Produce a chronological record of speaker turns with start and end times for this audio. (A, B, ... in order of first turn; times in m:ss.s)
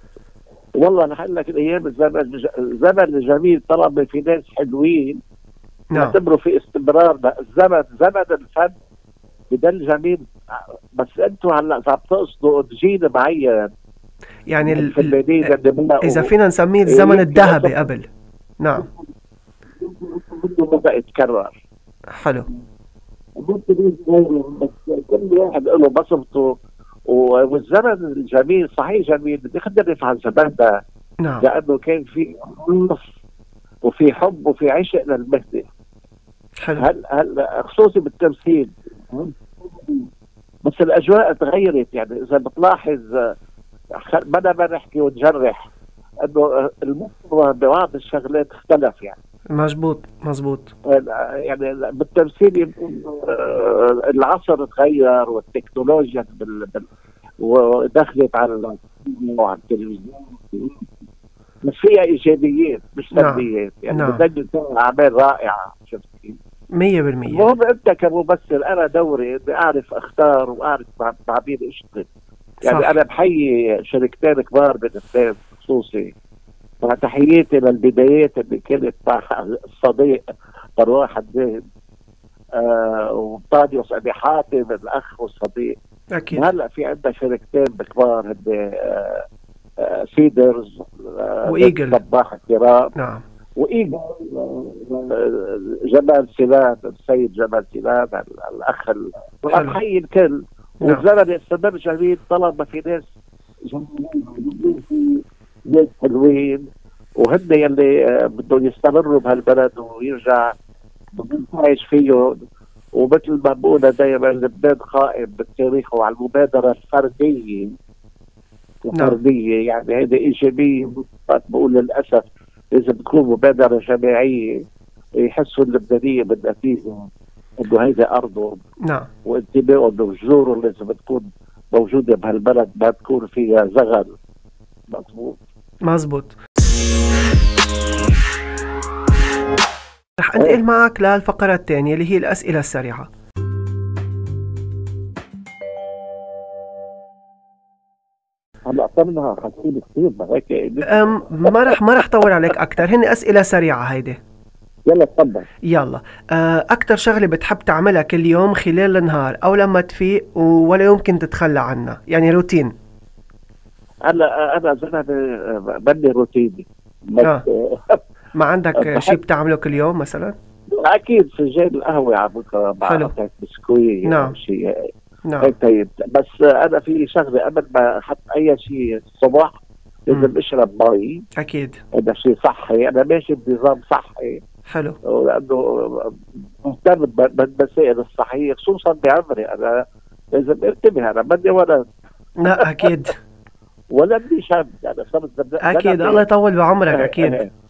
0:00.8-0:05.2 A
0:05.9-0:06.2 B
0:05.9-0:08.7 A
0:09.5-0:13.7 A
0:14.5-0:18.1 B
0:14.6-0:16.3 A
0:16.9-0:17.8 A
0:18.6-0:18.9 B
0:18.7-0:19.0 A
0:19.8-0:21.6 A
0:22.1-0:22.4 B
0:23.4-0:26.5 A
0:27.1-0:30.8 A
0:31.4-0:33.1 A
0:33.8-0:35.7 A
0:36.6-0:36.8 B
0:36.8-0:40.1 A
0:40.6-0:43.3 A
0:44.0-0:45.7 A
0:46.2-0:49.2 A
0:49.5-0:50.7 B
0:50.8-0:56.9 A
0:57.4-1:00.9 A
1:01.6-1:06.4 A
1:03.1-1:04.2 B
1:06.7-1:07.5 B
1:07.3-1:12.1 A
1:12.6-1:16.1 A
1:12.6-1:12.9 B
1:16.8-1:20.2 A
1:20.8-1:21.6 A
1:22.5-1:25.8 A
1:26.1-1:26.5 B
1:26.3-1:29.2 A
1:29.8-1:32.9 A
1:31.4-1:32.0 B
1:32.9-1:33.2 B
1:33.6-1:43.0 A
1:39.5-1:39.8 B
1:43.7-1:46.7 A
1:47.2-1:50.5 A
1:51.1-1:52.4 A
1:52.9-1:57.7 A
1:58.8-2:04.6 A
1:58.9-1:59.2 B
2:05.2-2:08.6 A
2:08.8-2:09.1 B
2:09.2-2:14.1 A
2:14.9-2:15.4 A
2:15.8-2:16.4 B
2:20.2-2:23.1 B
2:28.6-2:31.8 A
2:30.8-2:34.2 B
2:34.9-2:35.5 A
2:35.7-2:42.7 B
2:44.0-2:48.0 A
2:48.3-2:50.3 B
2:48.8-2:49.2 A
2:50.7-2:54.9 A
2:52.8-2:53.1 B
2:54.0-2:54.4 B
2:55.2-2:55.5 B
2:55.4-3:01.2 A
3:01.4-3:01.8 B
3:01.9-3:04.4 A
3:04.7-3:05.0 B
3:05.0-3:11.8 A
3:12.4-3:13.2 B
3:12.4-3:12.9 A
3:13.9-3:16.2 A
3:15.6-3:17.4 B
3:16.9-3:17.5 A